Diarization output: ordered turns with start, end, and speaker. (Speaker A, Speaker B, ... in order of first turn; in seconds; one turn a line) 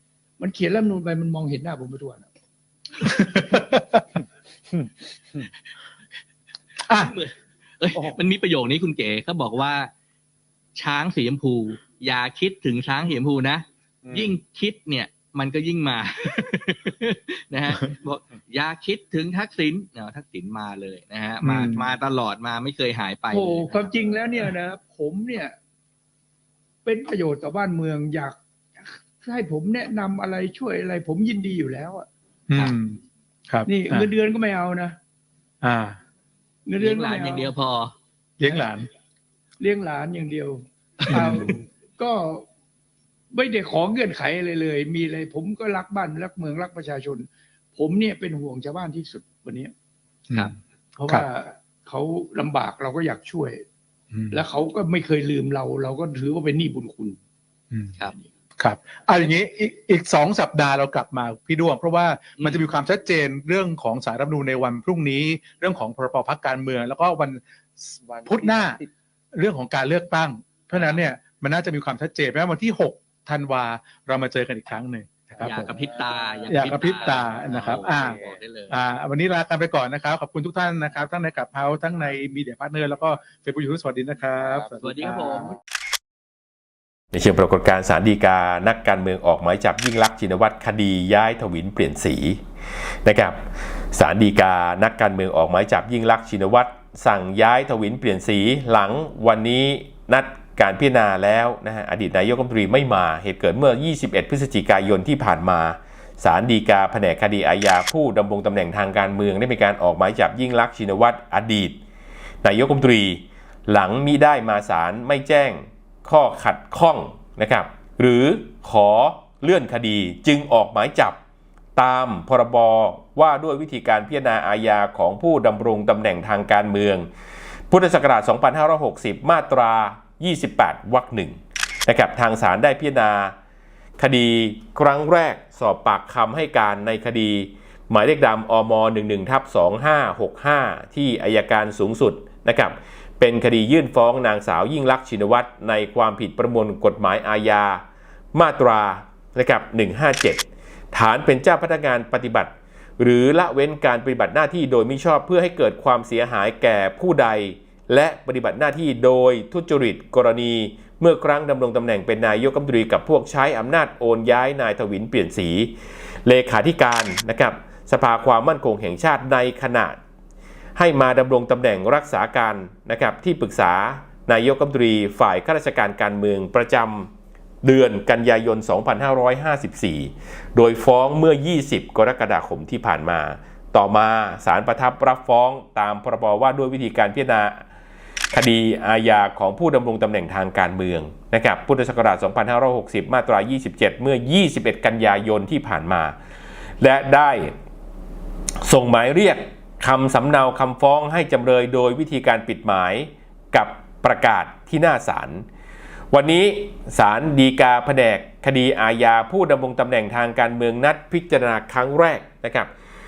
Speaker A: 0.4-2.3
Speaker B: 3.0-4.1
Speaker C: 6.9-9.9
Speaker C: 10.8-24.5
Speaker B: 21.4-21.9
Speaker A: 23.3-25.6
Speaker A: 26.8-28.4
Speaker A: 29.2-32.1
Speaker B: 32.5-34.1
Speaker A: 33.7-35.0
Speaker B: 35.6-36.0
Speaker A: 36.6-37.5
Speaker C: 36.8-37.9
Speaker B: 38.4-38.9
Speaker A: 39.6-42.5
Speaker B: 41.1-41.6
Speaker A: 43.3-49.7
Speaker B: 50.3-51.2
Speaker A: 51.0-53.6
Speaker A: 54.3-57.2
Speaker B: 58.6-75.9
Speaker C: 75.4-78.8
Speaker B: 76.4-85.5
Speaker C: 84.6-85.6
Speaker D: 87.1-92.4
Speaker D: 93.0-111.8
Speaker D: 112.4-121.2
Speaker D: 121.8-127.1
Speaker D: 127.7-133.3
Speaker D: 134.0-147.8
Speaker D: 148.3-165.7
Speaker D: 166.2-170.0
Speaker D: 170.8-177.1
Speaker D: 177.6-187.6
Speaker D: 188.3-196.1
Speaker D: 196.8-197.5
Speaker D: 198.6-205.4
Speaker D: 206.1-212.7